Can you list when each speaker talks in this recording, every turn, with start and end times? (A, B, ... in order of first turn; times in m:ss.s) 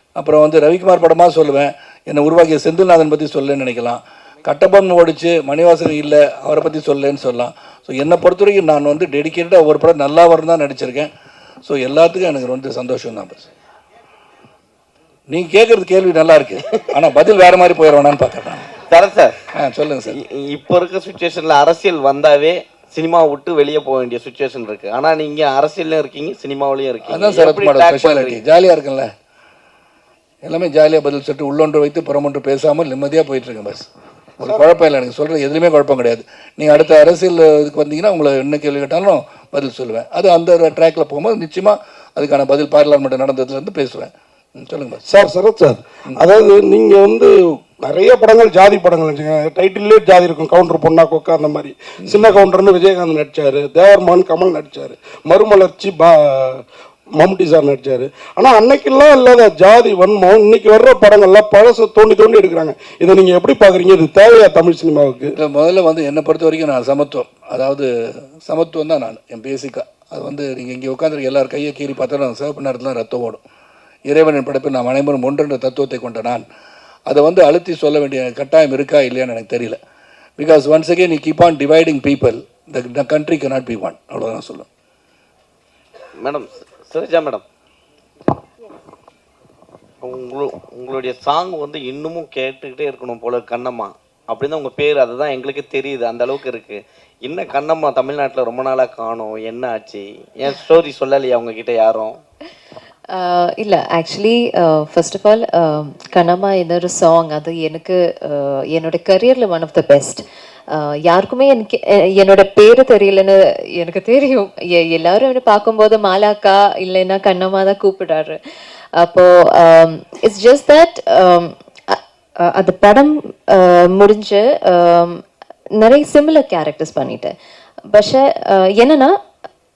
0:00.2-0:11.1 A
0:11.6-0:13.5 A
0:15.3-0:18.7 A
0:18.9-0:19.4 B
0:19.5-0:20.2 A
0:20.1-0:28.4 B
0:27.1-0:29.1 A
0:30.4-0:33.9 A
0:34.4-0:45.0 A
0:45.1-0:56.6 C
0:52.0-0:52.4 A
0:57.2-1:05.3 C
1:05.4-1:13.4 A
1:14.1-1:16.4 A
1:17.1-1:19.8 A
1:20.4-1:24.6 A
1:26.2-1:27.4 B
1:30.0-1:42.2 B
1:43.1-1:58.4 D
1:59.0-2:05.2 D
2:05.8-2:07.3 D
2:07.9-2:09.1 D